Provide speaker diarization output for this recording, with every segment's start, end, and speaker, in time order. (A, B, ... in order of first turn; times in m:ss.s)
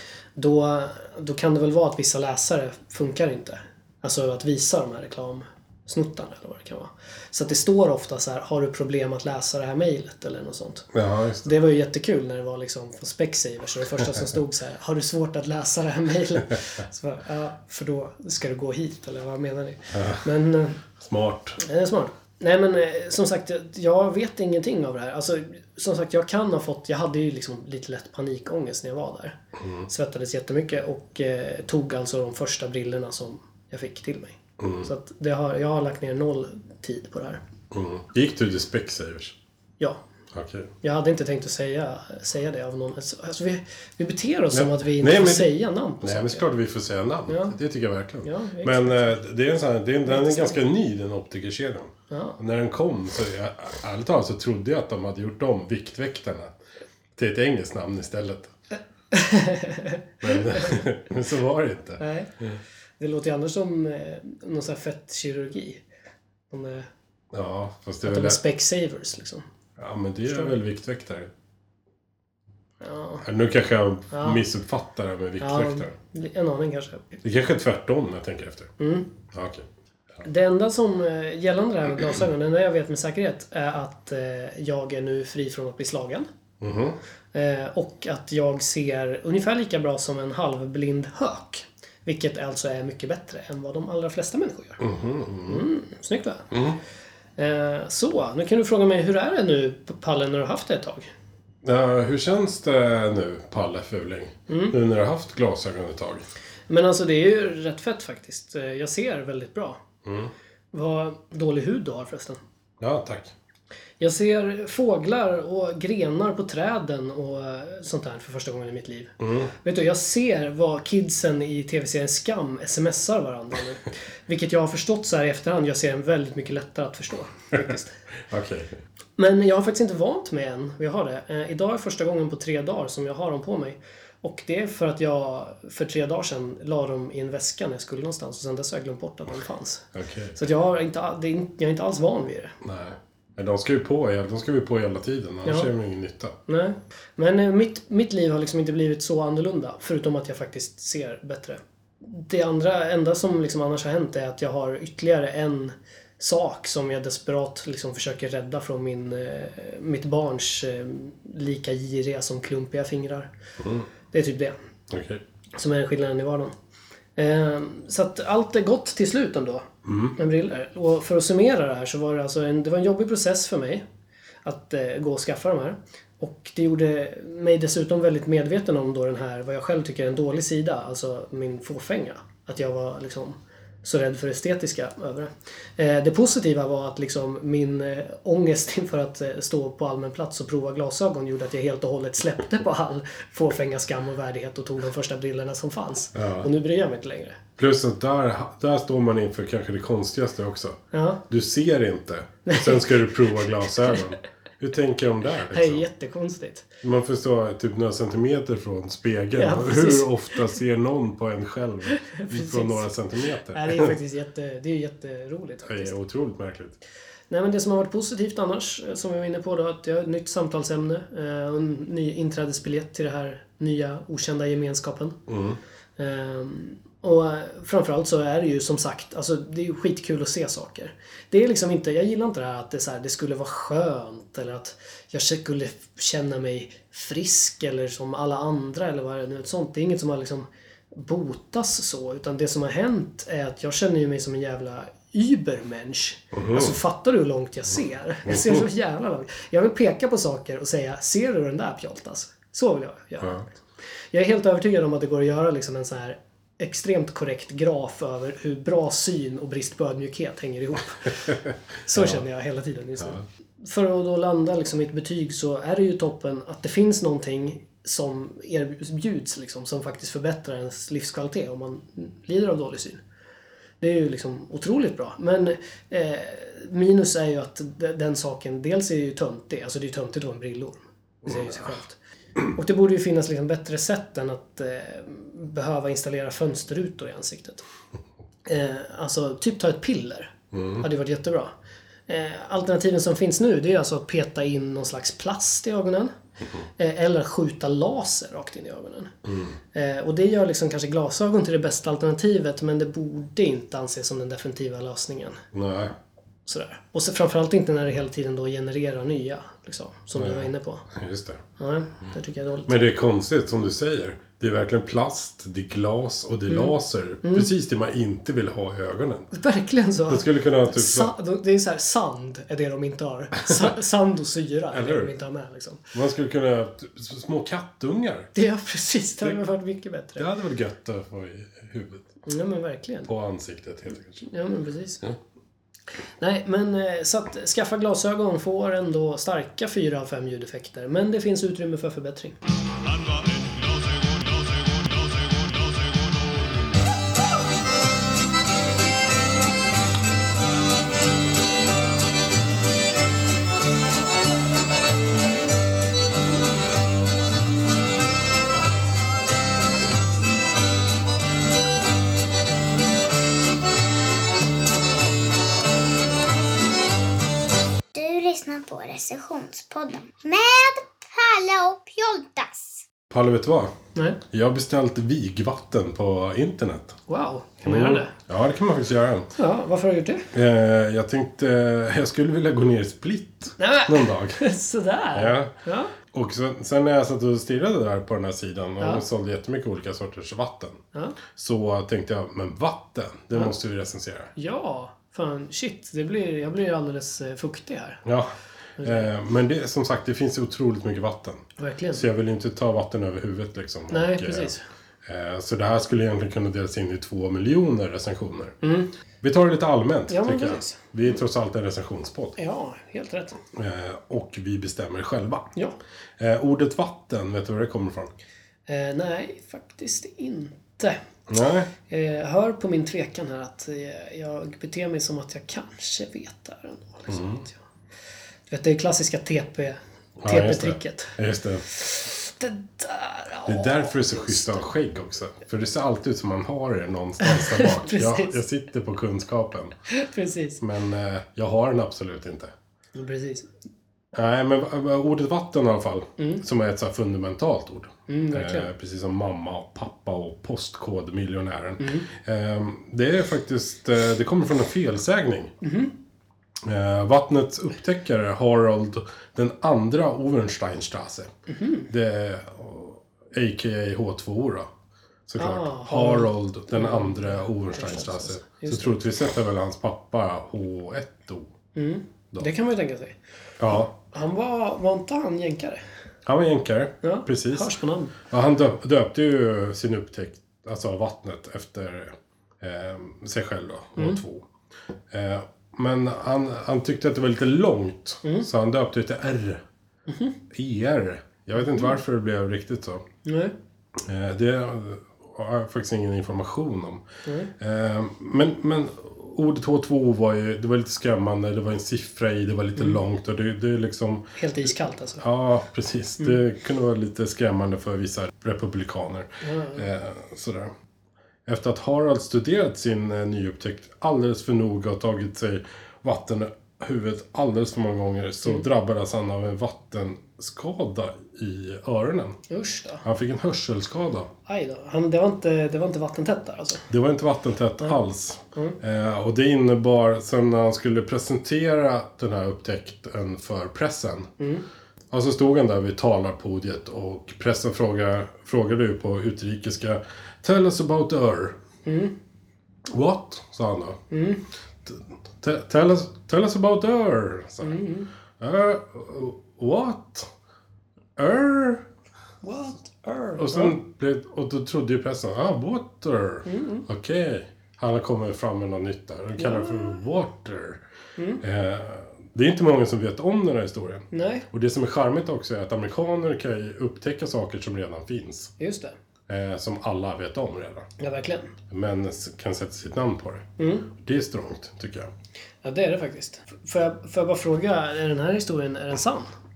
0:00.4-0:10.9 A
0:10.9-0:11.5 B
0:11.4-0:20.8 A
0:19.9-0:20.2 B
0:21.0-0:21.6 B
0:21.6-0:37.4 A
0:29.6-0:29.9 B
0:34.6-0:34.9 B
0:37.7-0:39.4 B
0:40.3-0:40.7 B
0:40.8-0:46.5 A
0:44.5-0:56.5 B
0:47.3-0:47.5 A
0:48.2-0:49.2 A
0:50.1-0:50.6 A
0:52.1-0:52.4 A
0:57.2-0:58.5 B
0:59.1-1:00.8 A
1:00.2-1:02.6 B
1:02.0-1:02.3 A
1:03.0-1:05.8 A
1:06.5-1:06.9 A
1:07.3-1:08.4 B
1:08.0-1:09.4 A
1:09.8-1:11.3 B
1:12.8-1:13.2 A
1:13.2-1:15.9 B
1:14.1-1:14.4 A
1:15.4-1:17.2 A
1:17.2-1:18.7 B
1:18.8-1:19.1 A
1:19.3-1:19.6 B
1:20.2-1:26.3 A
1:26.6-1:27.0 B
1:27.3-1:34.8 A
1:34.8-1:35.6 B
1:35.5-1:36.5 A
1:36.5-1:36.8 B
1:37.4-1:41.1 A
1:41.6-1:46.2 B
1:44.5-1:44.7 A
1:46.7-1:49.8 A
1:50.0-1:50.3 B
1:50.7-1:52.4 A
1:52.8-1:53.3 B
1:54.0-2:07.9 A
1:59.2-1:59.5 B
2:08.3-2:08.7 B
2:09.2-2:19.8 A
2:19.9-2:20.4 B
2:20.4-2:22.5 A
2:22.6-2:26.4 B
2:25.4-2:25.7 A
2:26.5-2:43.3 A
2:43.6-2:43.8 B
2:44.1-2:44.6 A
2:44.9-2:45.2 B
2:45.5-2:46.5 A
2:47.2-2:53.8 A
2:49.8-2:50.2 B
2:54.4-3:17.4 A
3:16.1-3:16.5 B
3:17.6-3:25.8 B
3:20.9-3:21.2 A
3:22.4-3:23.1 A
3:25.5-3:26.7 A
3:26.8-3:33.9 B
3:29.3-3:30.1 A
3:31.9-3:32.9 A
3:33.5-3:35.9 A
3:35.6-3:36.8 B
3:37.3-3:45.2 A
3:45.3-3:45.6 B
3:46.0-4:13.5 A
4:06.3-4:06.8 B
4:08.3-4:08.6 B
4:14.1-4:33.0 A
4:33.8-4:42.0 A
4:42.5-4:47.6 A
4:48.4-4:51.5 A
4:50.5-4:50.8 B
4:52.1-4:56.1 A
4:56.8-4:59.1 A
4:59.2-4:59.5 B
4:59.7-5:05.4 A
5:05.5-5:05.9 B
5:06.4-5:10.8 A
5:10.2-5:11.4 B
5:11.6-5:12.8 A
5:12.7-5:19.3 B
5:16.5-5:17.5 A
5:19.3-5:25.9 A
5:20.1-5:21.1 B
5:24.7-5:25.1 B
5:25.9-5:28.3 B
5:28.3-5:30.3 A
5:30.2-5:32.1 B
5:32.2-5:33.1 A
5:33.0-5:34.2 B
5:34.2-5:35.0 A
5:36.2-5:42.4 A
5:43.4-5:44.1 B
6:07.9-6:12.8 C
6:13.1-6:13.7 B
6:13.9-6:14.2 A
6:14.3-6:17.0 B
6:17.1-6:18.1 A
6:17.6-6:19.3 B
6:19.4-6:20.3 A
6:20.3-6:24.4 B
6:23.6-6:25.9 A
6:25.1-6:25.5 B
6:26.1-6:34.3 B
6:34.4-6:38.0 A
6:38.0-6:44.5 B
6:38.8-6:39.1 A
6:41.6-6:42.1 A
6:43.9-6:44.6 A
6:45.0-6:48.6 B
6:48.6-6:48.9 A
6:49.2-6:52.4 B
6:50.1-6:50.9 A
6:52.4-6:53.4 A
6:53.5-6:55.5 B
6:56.2-6:58.1 B
6:58.7-7:01.0 A
7:01.3-7:01.7 B
7:01.9-7:07.6 A
7:07.1-7:07.4 B
7:08.5-7:11.1 A
7:10.2-7:11.6 B
7:11.7-7:14.6 A
7:13.4-7:19.7 B
7:17.2-7:18.4 A
7:19.9-7:20.6 A
7:20.6-7:22.5 B
7:22.9-7:23.5 A
7:24.1-7:35.5 B
7:28.1-7:28.7 A
7:31.8-7:32.1 A
7:35.6-7:35.9 A
7:36.6-7:41.3 B
7:41.5-7:41.9 A
7:41.9-7:44.7 B
7:45.3-7:51.5 B
7:45.4-7:49.0 A
7:51.7-7:53.2 A
7:53.6-7:53.9 B
7:54.0-7:55.8 A
7:56.2-8:04.5 B
7:57.0-7:58.1 A
8:05.1-8:09.6 B
8:10.1-8:10.4 A
8:10.5-8:13.0 B
8:11.7-8:11.9 A
8:13.2-8:13.5 A
8:14.0-8:17.0 B
8:17.2-8:17.5 A
8:17.6-8:24.3 B
8:24.4-8:25.2 A
8:25.2-8:30.7 B
8:29.4-8:29.8 A
8:31.4-8:42.4 B
8:42.5-8:43.0 A
8:43.0-8:44.3 B
8:44.5-8:46.9 A
8:46.9-8:54.3 B
8:54.4-8:54.6 A
8:55.1-9:01.6 B
9:01.8-9:02.1 A
9:02.9-9:04.0 B
9:04.1-9:04.4 A
9:04.8-9:07.8 B
9:07.6-9:08.1 A
9:08.4-9:10.3 B
9:11.2-9:11.9 B
9:12.4-9:13.8 A
9:13.4-9:20.8 B
9:16.4-9:16.8 A
9:19.4-9:20.0 A
9:21.2-9:21.4 A
9:21.4-9:28.5 B
9:24.1-9:24.5 A
9:28.6-9:28.9 A
9:29.3-9:30.9 B
9:31.0-9:31.6 A
9:31.7-9:35.1 B
9:33.6-9:33.9 A
9:35.6-9:39.3 A